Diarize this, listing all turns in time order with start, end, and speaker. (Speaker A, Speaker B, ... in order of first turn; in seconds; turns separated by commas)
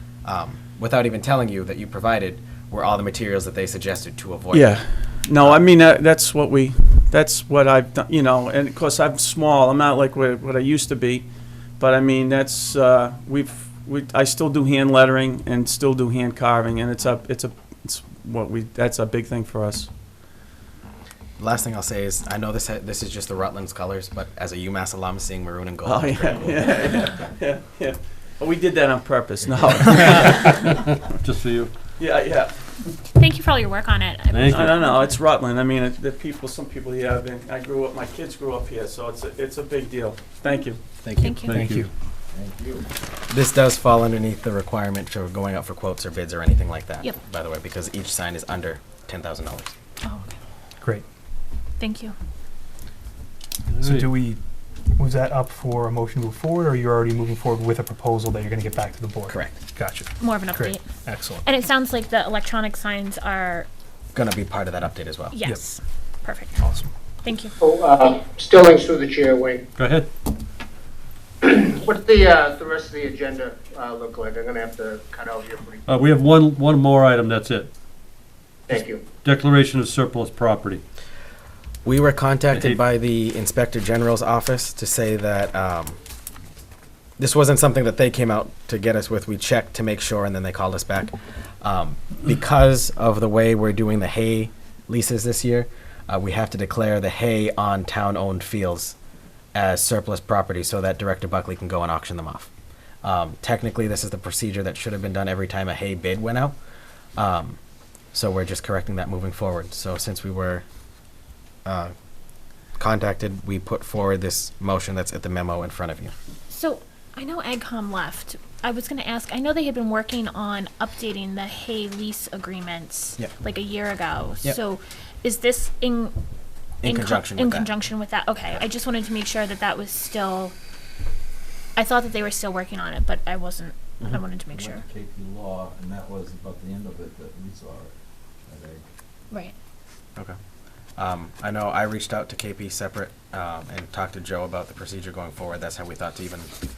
Speaker A: 0.2-5.7, Speaker B: 4.5-19.9, Speaker A: 21.4-26.8, Speaker B: 25.8-30.6, Speaker C: 30.5-31.7, Speaker B: 32.0-32.9, Speaker D: 33.1-35.1, Speaker C: 34.3-34.7, Speaker B: 34.5-40.8, Speaker A: 41.0-41.9, Speaker D: 41.2-41.6, Speaker C: 41.4-41.8, Speaker E: 41.6-41.9, Speaker F: 42.3-42.9, Speaker A: 43.3-49.7, Speaker D: 50.0-50.4, Speaker D: 51.8-52.1, Speaker C: 53.7-54.1, Speaker E: 53.8-54.4, Speaker E: 55.0-61.4, Speaker A: 59.3-59.5, Speaker D: 60.2-60.9, Speaker D: 61.4-63.7, Speaker A: 64.1-65.4, Speaker D: 65.3-66.6, Speaker E: 66.6-66.9, Speaker D: 67.2-67.5, Speaker G: 67.6-69.6, Speaker C: 69.8-70.1, Speaker G: 71.4-75.8, Speaker C: 75.9-77.7, Speaker G: 78.7-79.0, Speaker C: 79.2-80.8, Speaker A: 81.8-86.0, Speaker C: 82.5-82.8, Speaker A: 87.2-99.0, Speaker A: 99.5-102.5, Speaker A: 103.0-106.5, Speaker A: 107.2-107.6, Speaker A: 108.1-110.6, Speaker A: 111.6-111.9, Speaker A: 112.8-116.1, Speaker D: 116.5-126.2, Speaker A: 126.8-127.7, Speaker D: 126.8-130.5, Speaker D: 131.8-134.8, Speaker F: 134.5-137.9, Speaker F: 138.4-138.8, Speaker A: 141.0-146.5